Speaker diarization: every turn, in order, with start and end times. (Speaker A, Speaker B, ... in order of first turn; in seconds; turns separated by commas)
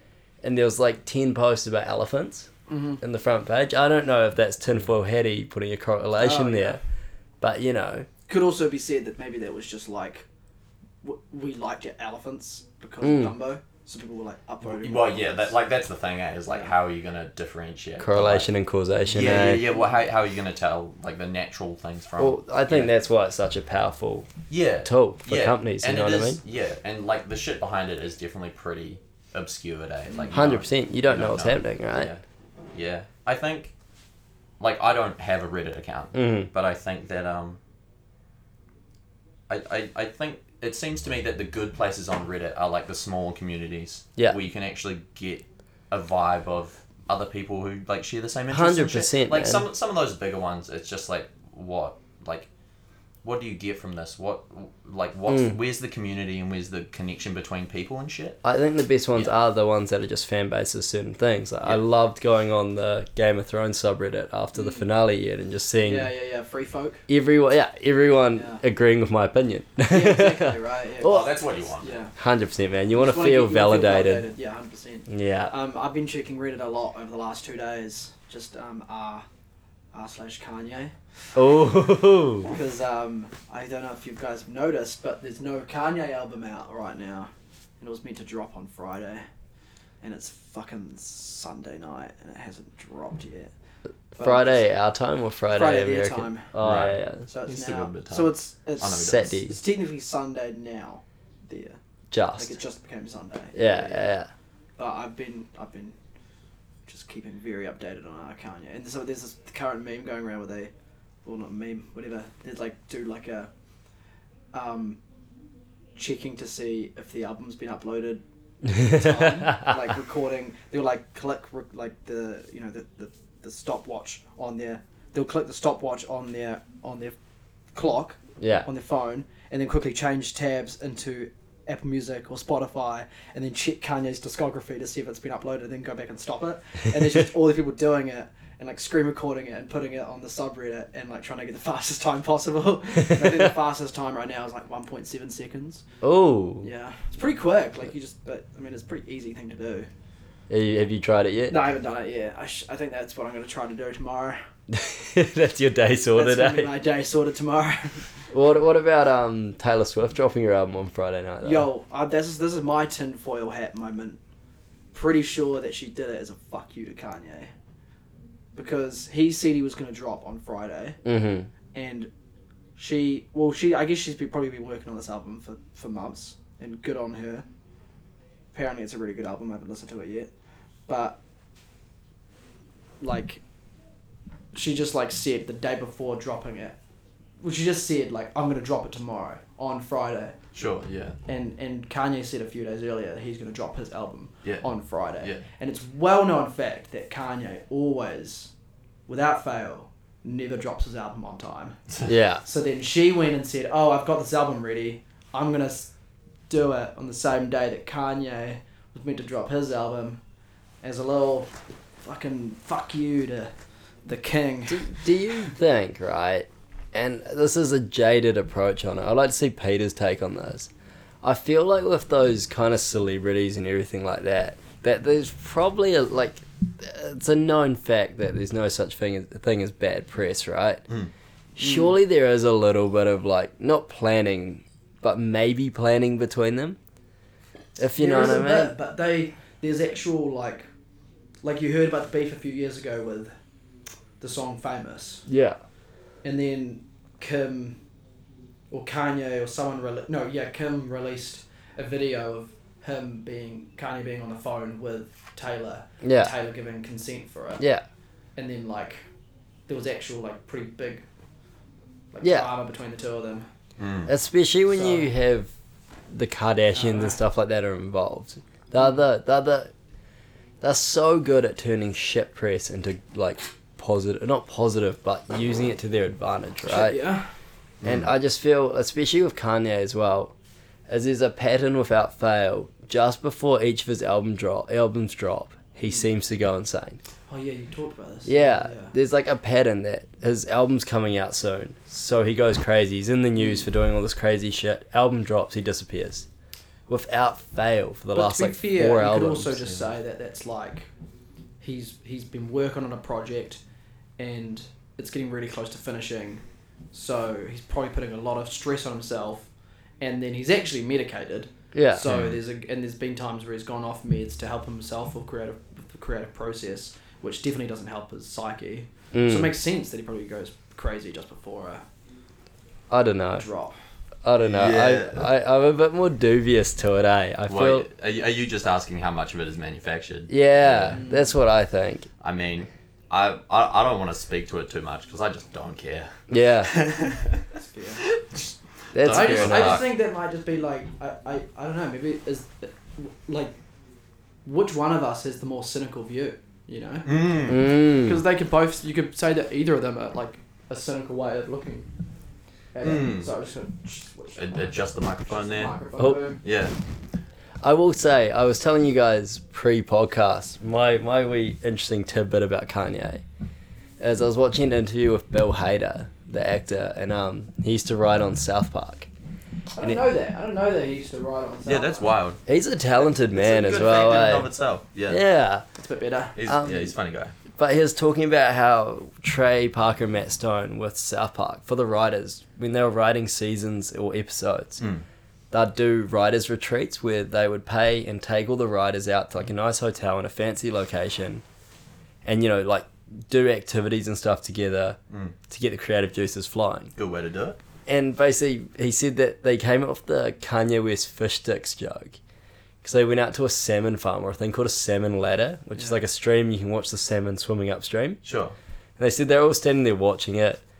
Speaker A: 0.4-2.5, Speaker B: 2.7-3.0, Speaker A: 3.0-6.8, Speaker B: 6.2-6.8, Speaker A: 7.4-8.1, Speaker B: 8.3-10.2, Speaker B: 11.0-15.5, Speaker A: 13.0-13.3, Speaker C: 14.7-18.5, Speaker A: 18.0-19.6, Speaker C: 19.1-22.9, Speaker A: 22.2-24.3, Speaker C: 24.5-32.2, Speaker A: 24.8-26.4, Speaker A: 30.3-32.1, Speaker C: 32.7-33.7, Speaker C: 34.6-37.6, Speaker A: 36.1-36.5, Speaker C: 39.5-52.5, Speaker A: 48.5-49.6, Speaker C: 53.2-58.4, Speaker A: 55.3-55.5, Speaker A: 58.4-66.1, Speaker B: 64.5-64.8, Speaker B: 65.8-67.0, Speaker A: 67.1-71.2, Speaker B: 68.3-68.6, Speaker B: 69.9-71.3, Speaker C: 71.0-72.0, Speaker B: 71.8-72.1, Speaker A: 72.2-74.3, Speaker B: 72.9-79.2, Speaker A: 75.1-75.5, Speaker B: 79.9-80.9, Speaker A: 81.3-82.5, Speaker B: 82.4-89.2, Speaker B: 90.0-93.5, Speaker B: 94.2-94.7, Speaker A: 94.2-97.2, Speaker B: 95.5-96.5, Speaker C: 96.6-99.4, Speaker B: 97.3-101.8, Speaker A: 99.0-99.5, Speaker A: 102.1-102.5, Speaker B: 102.3-104.1, Speaker A: 103.5-104.3, Speaker B: 104.8-106.0, Speaker B: 106.9-110.7, Speaker B: 111.2-113.5, Speaker B: 114.5-115.0, Speaker B: 116.0-127.1, Speaker A: 118.8-119.4, Speaker B: 127.7-145.8, Speaker A: 128.4-128.7, Speaker A: 146.0-146.7, Speaker B: 146.6-149.9, Speaker A: 150.5-151.6, Speaker B: 151.5-154.4, Speaker A: 154.7-156.7, Speaker B: 156.1-158.1, Speaker A: 158.3-161.7, Speaker B: 161.4-164.2, Speaker B: 164.9-167.5, Speaker B: 168.5-171.0, Speaker A: 171.0-171.5, Speaker B: 171.7-172.1, Speaker B: 172.8-177.4, Speaker B: 178.5-180.3, Speaker B: 180.9-181.2, Speaker B: 183.0-183.4, Speaker B: 184.5-186.8, Speaker B: 187.4-190.4, Speaker C: 190.5-191.2, Speaker B: 191.3-198.5, Speaker B: 199.1-201.8, Speaker A: 202.1-202.4, Speaker B: 202.4-205.9, Speaker B: 206.5-210.2, Speaker B: 210.8-213.5, Speaker B: 214.1-214.9, Speaker A: 214.7-220.7, Speaker A: 221.2-230.8, Speaker A: 231.6-236.8, Speaker B: 231.6-232.0, Speaker A: 237.8-238.7, Speaker B: 237.9-240.7, Speaker B: 241.4-243.3, Speaker B: 244.2-245.2, Speaker A: 245.3-245.6, Speaker B: 246.2-247.8, Speaker B: 248.7-257.6, Speaker A: 256.0-256.3, Speaker A: 257.6-257.8, Speaker B: 258.4-259.0, Speaker B: 259.7-261.1, Speaker B: 262.1-263.5, Speaker A: 262.2-262.5, Speaker C: 263.8-264.1, Speaker A: 264.1-265.5, Speaker B: 264.7-265.1, Speaker A: 266.1-269.7, Speaker B: 266.7-267.2, Speaker A: 270.6-277.0, Speaker B: 276.7-277.3, Speaker C: 277.8-278.1, Speaker A: 277.8-280.3, Speaker A: 280.9-287.0, Speaker B: 287.3-288.9, Speaker A: 288.2-296.3, Speaker B: 293.4-293.7, Speaker A: 296.9-299.5, Speaker B: 298.1-300.9, Speaker B: 301.6-303.6, Speaker B: 304.2-306.4, Speaker B: 306.9-309.5, Speaker B: 310.0-321.8, Speaker A: 311.7-312.0, Speaker C: 312.1-312.4, Speaker A: 319.1-319.5, Speaker A: 322.9-323.4, Speaker B: 323.4-323.8, Speaker A: 324.2-327.9, Speaker C: 324.4-325.3, Speaker C: 327.5-331.0, Speaker A: 330.3-332.1, Speaker B: 330.9-331.4, Speaker C: 332.2-336.1, Speaker A: 336.3-336.7, Speaker C: 336.6-337.4, Speaker B: 337.5-338.0, Speaker C: 338.0-339.9, Speaker A: 338.9-339.8, Speaker B: 339.1-343.6, Speaker B: 344.4-351.9, Speaker C: 347.0-347.6, Speaker A: 347.5-348.2, Speaker B: 352.7-356.4, Speaker C: 352.8-353.3, Speaker C: 354.4-355.8, Speaker A: 356.0-356.2, Speaker C: 356.4-356.7, Speaker A: 357.6-363.2, Speaker A: 364.0-369.1, Speaker B: 369.7-372.1, Speaker C: 371.6-372.4, Speaker A: 372.4-374.5, Speaker C: 373.0-375.2, Speaker A: 375.1-375.6, Speaker B: 375.8-376.4, Speaker C: 376.4-377.3, Speaker A: 376.4-376.9, Speaker A: 377.5-384.8, Speaker A: 385.5-391.4, Speaker A: 392.2-396.9, Speaker C: 395.1-395.4, Speaker C: 396.9-397.6, Speaker A: 397.9-402.2, Speaker A: 402.8-408.2, Speaker C: 408.2-408.5, Speaker A: 409.0-410.6